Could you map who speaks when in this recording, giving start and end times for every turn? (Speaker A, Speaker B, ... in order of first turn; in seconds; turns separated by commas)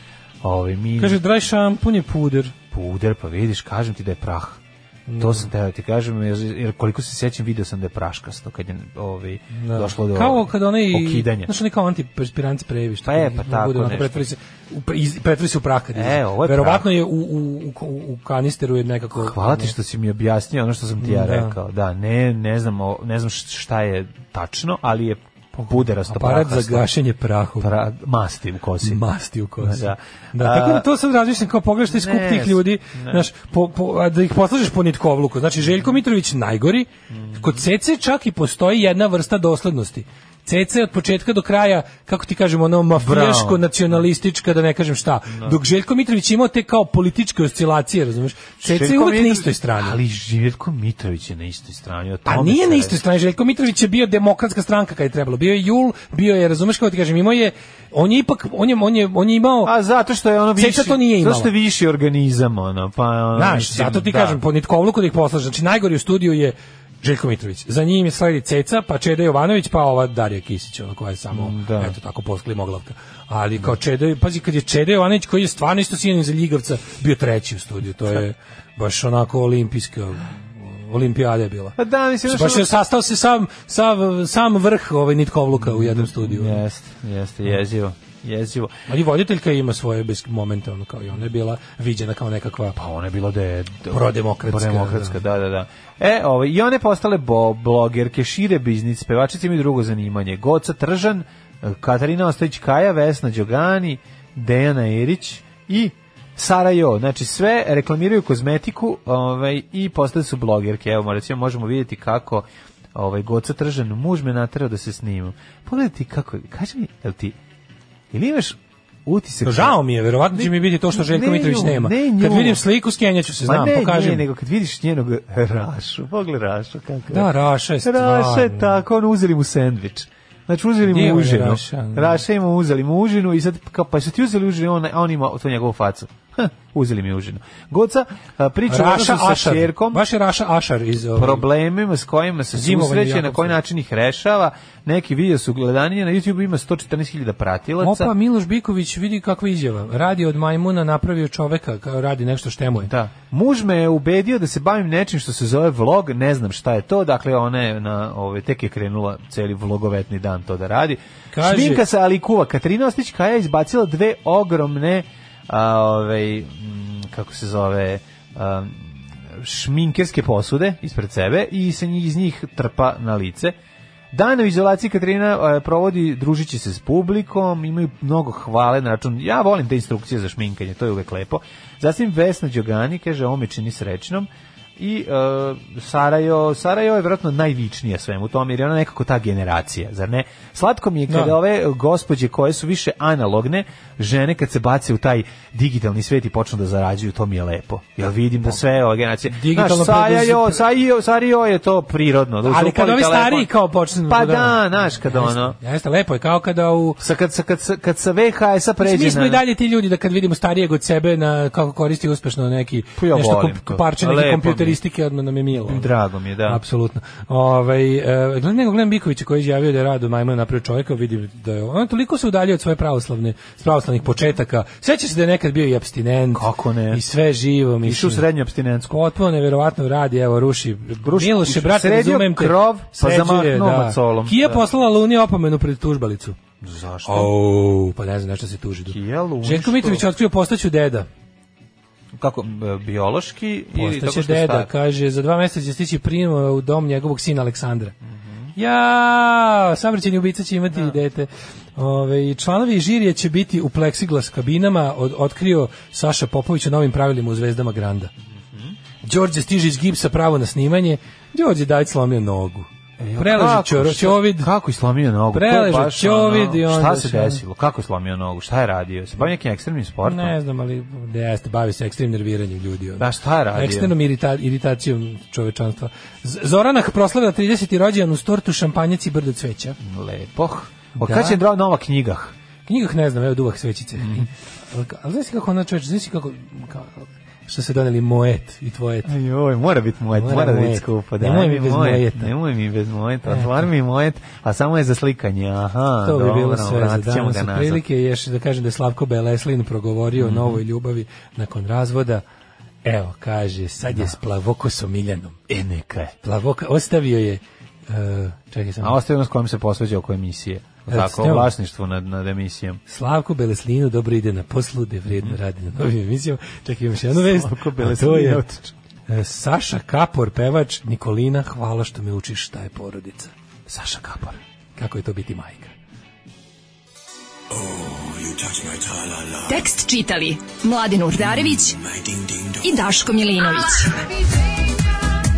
Speaker A: 0.4-1.2, Speaker B: 1.0-2.5, Speaker A: 2.7-4.6, Speaker B: 5.1-5.5, Speaker A: 5.2-11.5, Speaker B: 9.5-19.8, Speaker A: 13.1-14.2, Speaker A: 15.9-16.9, Speaker A: 19.1-26.9, Speaker B: 21.0-21.6, Speaker B: 25.5-27.7, Speaker A: 27.6-29.0, Speaker B: 28.8-50.0, Speaker A: 29.6-30.9, Speaker A: 31.9-33.3, Speaker A: 37.1-37.6, Speaker A: 43.0-44.0, Speaker A: 45.3-45.6, Speaker A: 48.6-53.0, Speaker B: 52.3-59.7, Speaker A: 59.6-64.4, Speaker B: 60.5-61.5, Speaker B: 63.4-86.6, Speaker A: 71.3-71.9, Speaker A: 81.8-82.7, Speaker A: 85.5-88.7, Speaker B: 88.9-92.8, Speaker A: 92.8-117.4, Speaker B: 93.9-95.2, Speaker A: 118.1-119.8, Speaker B: 119.4-124.3, Speaker A: 120.3-122.6, Speaker A: 123.4-127.3, Speaker B: 127.1-128.7, Speaker A: 127.8-140.0, Speaker B: 130.9-132.2, Speaker B: 138.7-141.5, Speaker A: 141.1-148.1, Speaker B: 142.5-143.6, Speaker B: 147.8-152.9, Speaker A: 152.8-173.6, Speaker B: 161.3-161.8, Speaker A: 174.1-203.5, Speaker B: 191.1-191.3, Speaker B: 199.3-200.6, Speaker B: 202.4-207.0, Speaker A: 204.1-205.6, Speaker A: 207.0-209.4, Speaker B: 208.8-215.9, Speaker A: 213.0-214.8, Speaker A: 215.6-216.6, Speaker B: 216.4-228.3, Speaker A: 226.3-227.0, Speaker A: 227.8-228.9, Speaker B: 228.9-236.4, Speaker A: 231.0-234.6, Speaker A: 236.6-237.3, Speaker B: 237.1-241.1, Speaker A: 238.9-240.1, Speaker A: 242.1-244.7, Speaker B: 243.7-247.9, Speaker B: 248.6-258.1, Speaker B: 259.0-264.5, Speaker A: 263.0-270.4, Speaker B: 265.3-267.4, Speaker B: 270.0-279.8, Speaker A: 273.0-273.9, Speaker A: 279.8-282.3, Speaker B: 281.0-281.4, Speaker B: 282.6-289.1, Speaker A: 284.0-284.3, Speaker A: 289.1-297.8, Speaker B: 290.1-292.3, Speaker B: 293.3-293.6, Speaker B: 296.0-302.2, Speaker A: 300.1-300.6, Speaker B: 302.9-305.4, Speaker A: 303.9-304.1, Speaker A: 305.5-306.1, Speaker B: 306.2-309.0, Speaker A: 308.8-312.8, Speaker B: 310.9-311.5, Speaker B: 312.9-318.4, Speaker A: 317.1-318.7, Speaker B: 319.1-323.3, Speaker A: 323.7-324.4, Speaker B: 324.8-325.7, Speaker C: 329.4-331.8, Speaker C: 332.5-334.1